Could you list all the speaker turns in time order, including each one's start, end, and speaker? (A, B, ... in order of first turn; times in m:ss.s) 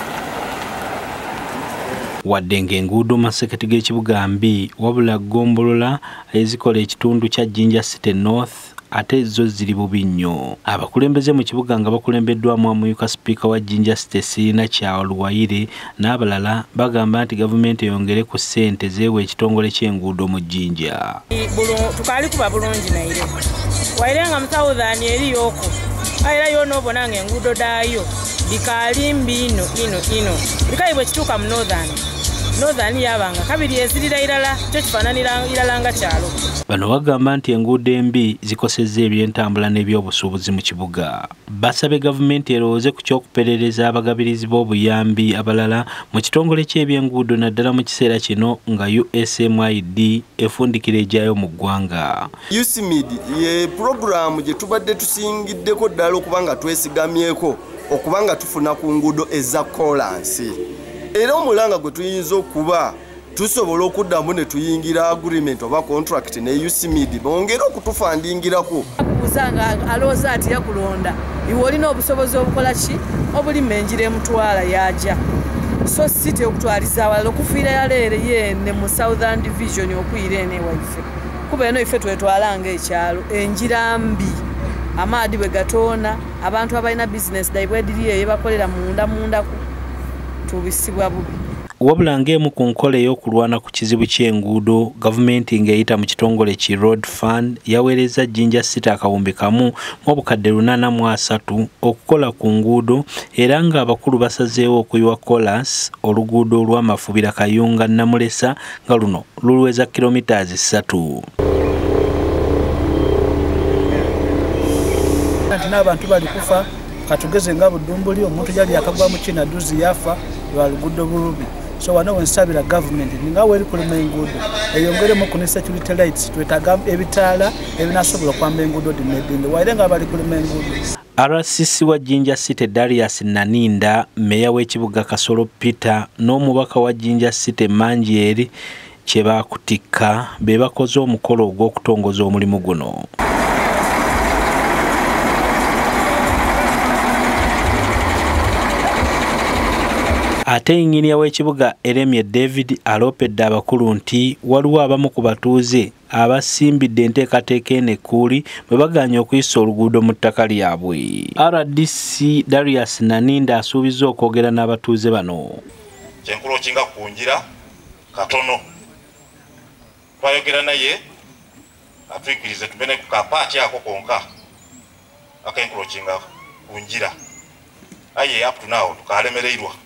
0:02.2-0:21.2 A
0:21.3-0:23.3 B
0:23.9-0:32.0 B
0:32.5-0:36.4 B
0:36.7-0:52.3 A
0:52.5-1:00.6 C
1:01.1-1:08.9 C
1:09.0-1:15.2 D
1:15.8-1:24.4 D
1:25.0-1:29.6 D
1:30.4-1:31.3 D
1:31.8-1:51.3 A
1:55.5-2:10.8 E
2:11.2-2:18.5 A
2:19.0-2:23.0 A
2:30.5-2:45.6 A
2:46.2-2:47.4 F
2:48.1-2:48.6 F
2:50.2-2:51.0 F
2:52.1-2:54.2 F
2:55.4-2:57.1 F
2:58.1-2:59.7 F